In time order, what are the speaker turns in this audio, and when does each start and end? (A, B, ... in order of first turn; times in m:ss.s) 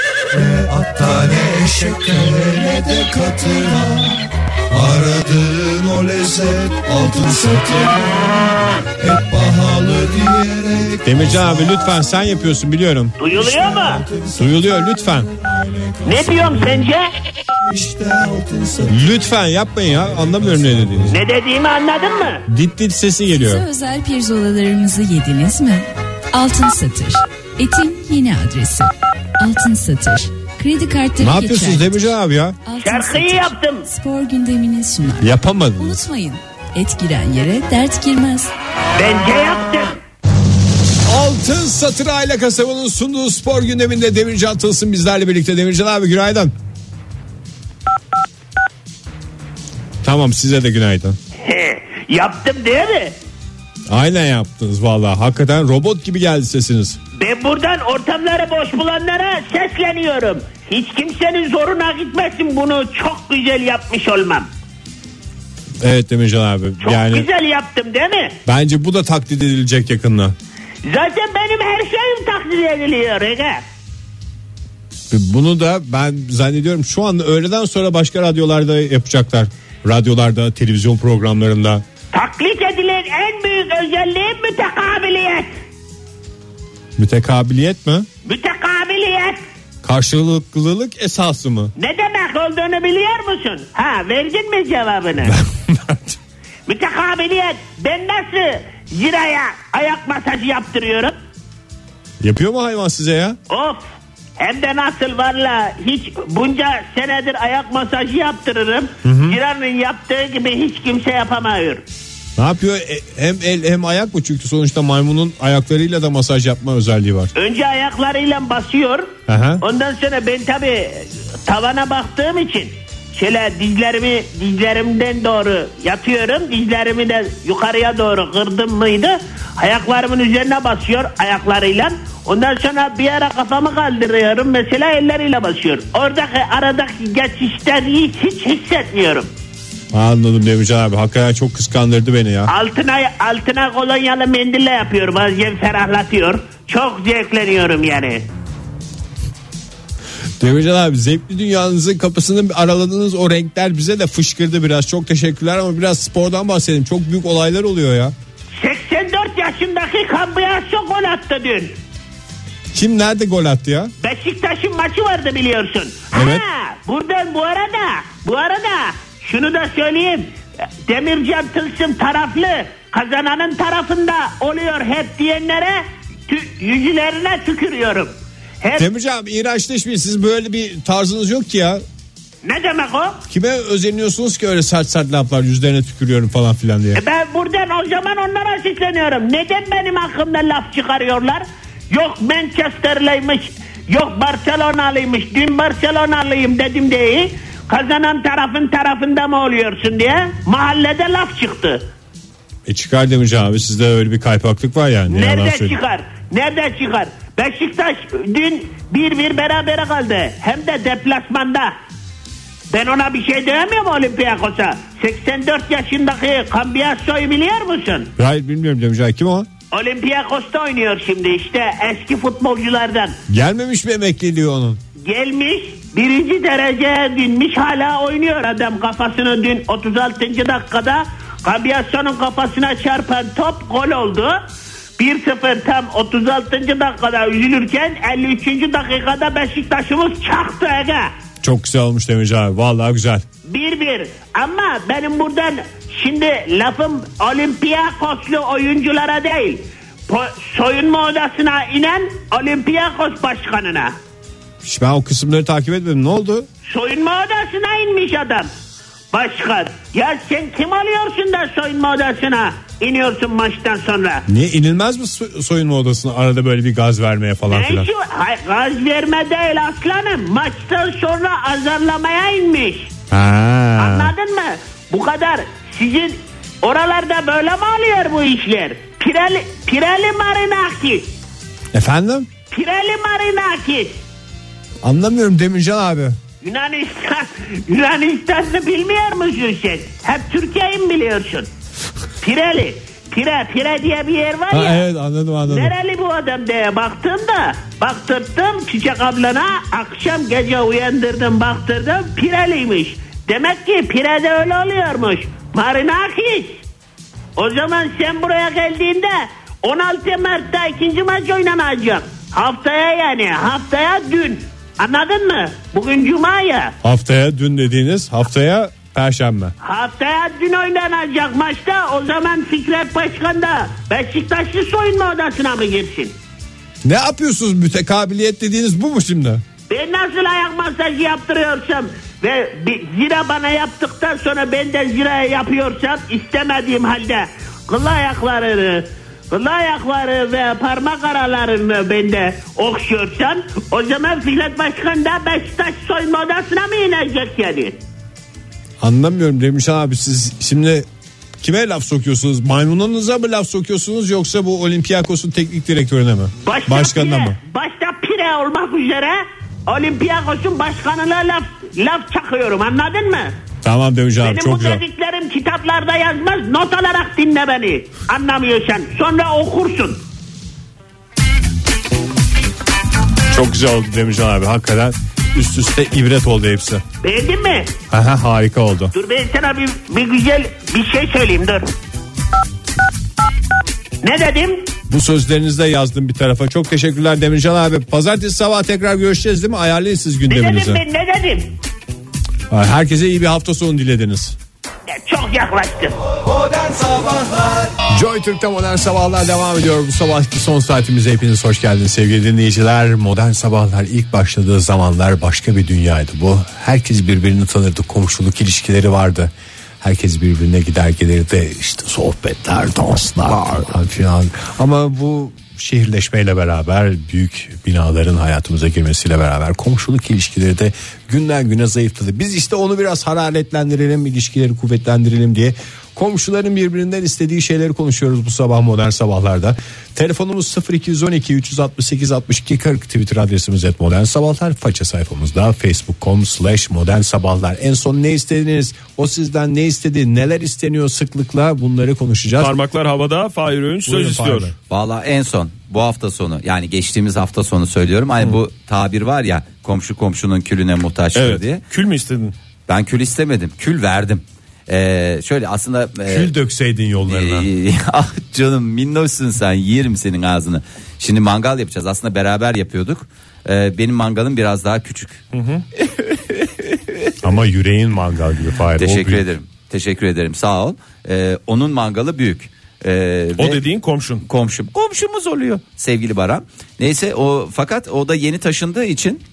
0:00.4-0:04.2 A
0:04.7-0:08.4 A
0:09.0-0:11.7 A
0:11.0-0:13.2 B
0:13.2-0:14.0 C
0:13.3-0:14.7 A
0:14.4-0:15.3 B
0:15.6-0:16.8 A
0:16.0-0:17.0 C
0:17.7-0:18.9 A
0:18.9-0:21.2 B
0:21.1-0:22.4 C
0:22.5-0:23.7 B
0:23.3-0:32.0 D
0:31.2-0:32.6 B
0:32.7-0:38.5 D
0:32.8-0:33.9 C
0:35.2-0:36.0 B
0:39.0-0:40.0 C
0:41.0-0:46.5 B
0:50.0-0:51.2 B
0:51.4-0:53.2 C
0:53.9-0:57.0 B
0:57.1-1:04.5 C
1:05.8-1:07.3 B
1:06.8-1:08.4 C
1:08.4-1:10.4 B
1:10.8-1:13.6 C
1:15.1-1:21.8 B
1:22.1-1:25.5 C
1:27.0-1:28.1 B
1:28.2-1:29.4 C
1:29.8-1:31.7 B
1:31.8-1:35.3 C
1:35.2-1:36.2 B
1:36.7-1:41.2 C
1:42.2-1:43.4 B
1:43.5-1:43.8 C
1:44.4-1:51.8 C
1:49.0-1:49.4 B
1:52.4-1:57.3 B
1:57.4-2:19.3 C
1:59.3-1:59.6 B
2:19.9-2:22.5 B
2:22.5-2:28.3 C
2:30.4-2:38.1 B
2:38.6-2:41.7 C
2:42.7-2:43.9 B
2:44.0-2:50.3 C
2:46.1-2:46.4 B
2:50.8-2:58.9 C
2:58.8-3:01.8 B
3:02.4-3:03.2 C
3:03.3-3:07.0 B
3:06.9-3:21.9 C
3:22.7-3:25.8 B
3:25.1-3:31.7 C
3:32.7-3:38.1 C
3:38.2-3:39.5 B
3:39.7-3:43.2 C
3:43.3-3:44.8 B
3:45.0-3:54.4 C
3:55.0-4:01.1 C
4:01.4-4:03.2 B
4:03.5-4:14.0 C
4:14.6-4:16.5 B
4:16.7-4:18.5 C
4:19.1-4:24.2 C
4:24.3-4:27.9 B
4:27.5-4:32.9 C
4:33.1-4:34.1 B
4:33.8-4:41.1 C
4:41.7-4:42.3 B
4:42.5-4:44.0 C
4:44.8-4:46.2 B
4:46.4-4:51.5 C
4:52.2-4:54.8 C
4:54.5-4:55.7 B
4:55.5-5:06.6 C
5:07.4-5:16.8 C
5:16.8-5:19.5 B
5:19.6-5:26.2 C
5:26.8-5:29.4 B
5:29.7-5:47.8 C
5:48.8-5:50.8 B
5:51.4-5:57.4 B
5:56.4-6:03.3 C
6:03.6-6:04.8 B
6:04.2-6:10.0 C
6:13.3-6:16.8 B
6:17.0-6:17.7 C
6:17.9-6:18.9 B
6:18.9-6:21.7 C
6:24.0-6:24.7 C
6:24.9-6:30.8 B
6:30.3-6:31.5 C
6:32.5-6:34.4 B
6:34.9-6:36.0 C
6:36.4-6:37.7 A
6:37.9-7:22.6 B
6:53.3-6:53.6 E
7:22.4-7:24.5 F
7:23.9-7:24.5 B
7:24.7-7:31.6 E
7:31.2-7:32.3 F
7:32.7-7:36.3 E
7:36.1-7:37.5 B
7:37.0-7:45.2 E
7:45.3-7:45.6 F
7:47.2-7:49.2 B
7:48.8-7:53.6 E
7:53.4-7:54.2 F
7:54.2-7:59.2 E